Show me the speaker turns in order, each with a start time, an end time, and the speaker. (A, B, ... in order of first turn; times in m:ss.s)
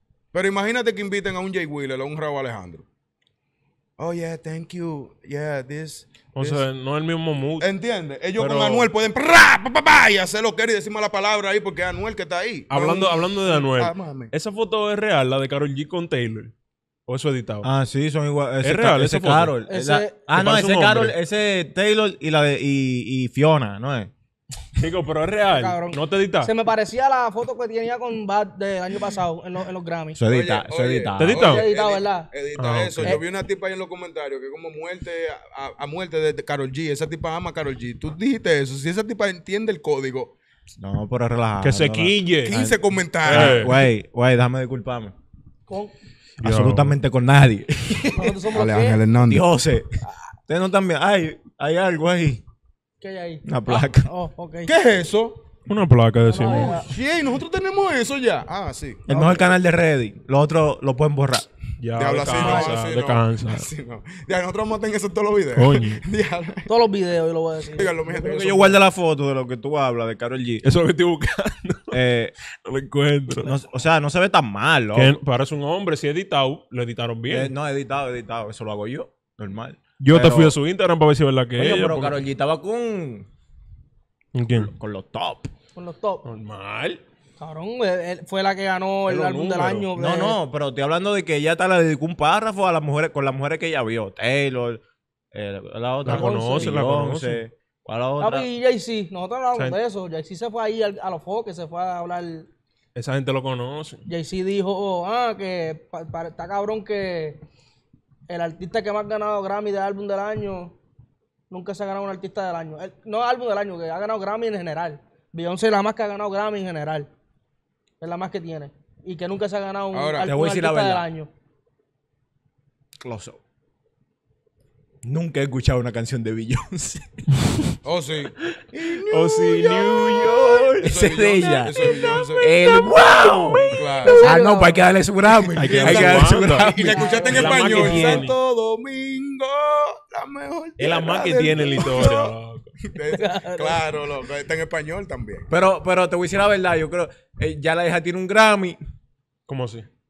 0:00.3-0:02.8 A
0:04.0-0:06.6 A
0:06.3-0:07.7 B
0:07.6-0:14.3 A
0:08.4-0:08.9 B
0:12.7-0:16.5 B
0:17.1-0:17.7 B
0:17.6-0:24.1 C
0:18.6-0:19.5 B
0:19.7-0:20.2 D
0:20.3-0:21.1 B
0:24.7-0:26.5 B
0:25.5-0:30.2 D
0:30.1-0:31.4 C
0:30.3-0:40.3 A
0:31.2-0:31.7 B
0:31.4-0:32.3 D
0:32.6-0:33.2 B
0:40.8-0:45.1 C
0:41.6-0:42.6 B
0:42.4-0:43.7 A
0:43.2-0:43.8 B
0:46.4-0:46.9 B
0:46.4-0:48.4 C
0:48.2-0:49.0 D
0:48.5-0:49.5 A
0:49.2-0:52.4 C
0:53.0-0:53.4 D
0:53.4-0:54.1 C
0:54.0-0:54.7 D
0:54.7-0:55.4 A
0:55.6-0:56.8 B
0:56.2-0:56.9 D
0:56.4-0:59.0 A
0:59.1-1:01.4 C
1:01.8-1:03.7 B
1:01.9-1:06.6 A
1:02.3-1:02.7 D
1:05.5-1:06.0 B
1:06.7-1:08.2 D
1:07.8-1:08.8 A
1:08.1-1:10.6 C
1:10.6-1:12.0 B
1:11.9-1:12.3 C
1:12.6-1:13.5 B
1:13.4-1:15.2 C
1:14.9-1:17.5 B
1:17.3-1:20.6 C
1:20.0-1:22.2 B
1:21.6-1:23.2 C
1:24.3-1:24.7 B
1:24.5-1:25.5 C
1:25.7-1:26.2 D
1:26.2-1:27.0 B
1:27.4-1:30.4 D
1:29.1-1:29.9 B
1:29.9-1:34.8 C
1:35.3-1:38.5 C
1:36.0-1:37.4 B
1:36.0-1:36.8 D
1:38.2-1:42.5 D
1:42.9-1:44.0 B
1:44.1-1:47.4 D
1:48.3-1:50.7 D
1:51.5-1:57.1 D
1:58.0-2:01.3 D
1:59.9-2:00.3 A
2:00.2-2:01.0 C
2:03.0-2:03.4 C
2:05.0-2:07.2 C
2:07.8-2:08.3 A
2:08.7-2:17.6 C
2:09.0-2:10.6 B
2:10.8-2:12.5 A
2:11.8-2:12.3 B
2:13.7-2:14.3 A
2:14.0-2:14.8 D
2:15.5-2:16.8 B
2:15.6-2:25.5 A
2:16.8-2:18.2 D
2:17.3-2:18.4 B
2:20.8-2:22.7 B
2:23.1-2:23.8 D
2:25.5-2:28.8 C
2:29.5-2:29.9 B